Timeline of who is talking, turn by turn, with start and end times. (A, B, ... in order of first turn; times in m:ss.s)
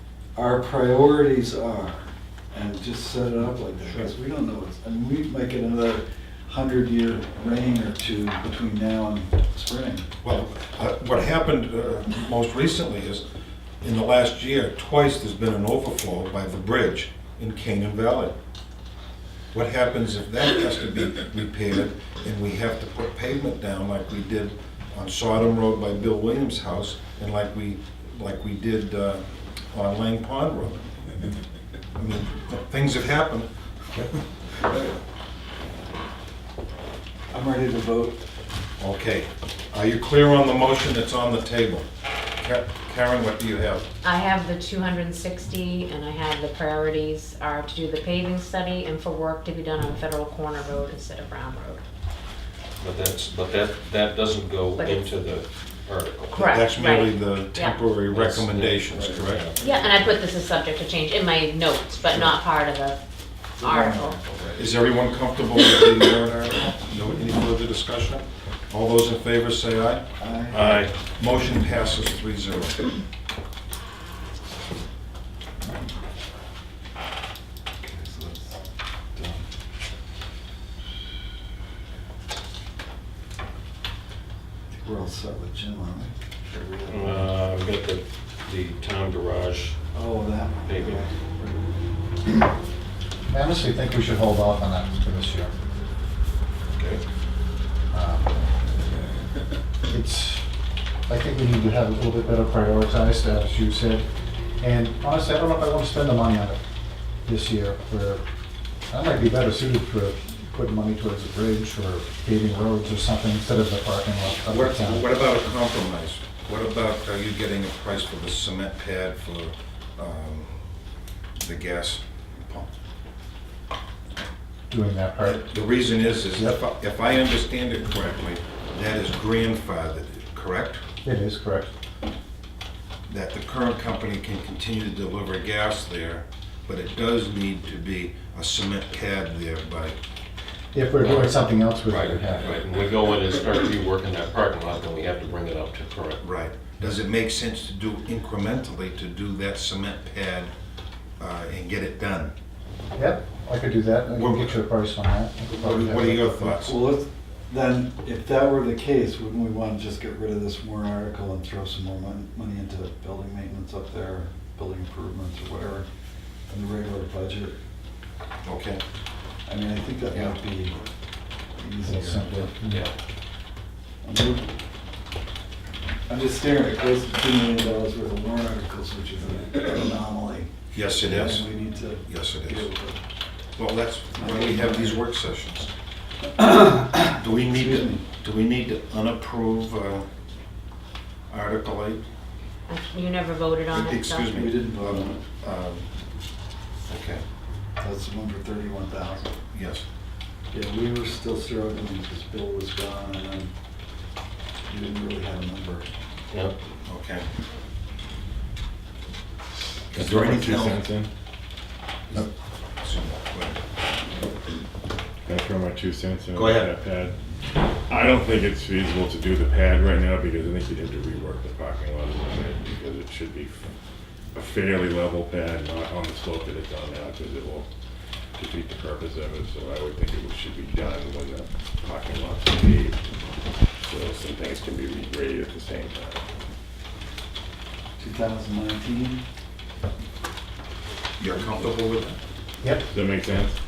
0:00.4-0:10.1 A
0:10.2-0:13.2 B
0:13.8-0:18.4 B
0:19.5-0:30.9 B
0:32.0-0:34.9 B
0:37.3-0:38.2 A
0:38.8-0:41.9 B
0:42.4-0:43.9 B
0:44.0-0:51.8 C
0:52.8-0:56.5 D
0:54.8-0:55.2 C
0:56.3-0:59.4 B
0:56.4-0:57.8 C
0:58.1-1:00.1 D
0:59.6-1:03.0 C
1:03.6-1:04.2 C
1:03.6-1:04.6 A
1:04.5-1:10.0 B
1:10.2-1:10.6 A
1:10.5-1:10.9 D
1:11.2-1:12.9 B
1:17.8-1:18.6 A
1:19.2-1:19.4 A
1:24.7-1:27.3 A
1:26.9-1:29.8 D
1:29.9-1:31.7 A
1:30.7-1:31.1 D
1:33.3-1:35.5 E
1:36.7-1:37.0 B
1:37.9-1:38.4 E
1:39.9-1:40.4 E
1:41.1-1:44.1 E
1:44.6-1:46.6 E
1:47.2-1:48.2 E
1:48.9-1:55.1 E
1:54.4-2:00.5 B
2:01.4-2:02.7 B
2:04.7-2:05.5 E
2:05.2-2:10.8 B
2:06.3-2:06.6 E
2:11.0-2:11.7 E
2:13.1-2:20.0 B
2:20.7-2:22.6 E
2:21.0-2:26.2 D
2:26.2-2:30.5 B
2:31.2-2:32.3 B
2:33.0-2:36.5 E
2:34.1-2:34.6 B
2:35.6-2:36.8 B
2:36.6-2:45.9 A
2:46.5-2:47.6 A
2:48.4-2:48.8 B
2:49.5-2:50.8 A
2:51.6-2:52.5 A
2:51.8-2:52.9 E
2:52.7-2:52.9 D
2:54.0-2:54.5 A
2:56.1-3:03.0 A
3:00.7-3:01.5 B
3:02.1-3:02.6 B
3:03.6-3:05.7 B
3:04.2-3:05.1 A
3:06.4-3:08.0 A
3:07.2-3:10.1 B
3:11.3-3:12.0 B
3:12.7-3:14.3 C
3:13.7-3:15.9 B
3:14.3-3:15.2 A
3:16.9-3:17.2 B
3:17.8-3:19.3 A
3:19.5-3:19.8 B
3:20.5-3:23.5 A
3:24.7-3:25.9 A
3:26.3-3:26.6 D
3:26.9-3:27.3 B
3:29.9-3:30.8 B
3:29.9-3:31.1 F
3:32.8-3:33.6 B
3:35.3-3:37.2 F
3:36.3-3:36.7 B
3:37.9-3:43.6 F
3:44.3-3:47.7 F
3:48.4-3:53.0 F
3:53.8-3:56.2 F
3:58.0-3:59.2 A
4:01.2-4:02.2 B
4:02.6-4:02.9 E
4:02.9-4:03.6 F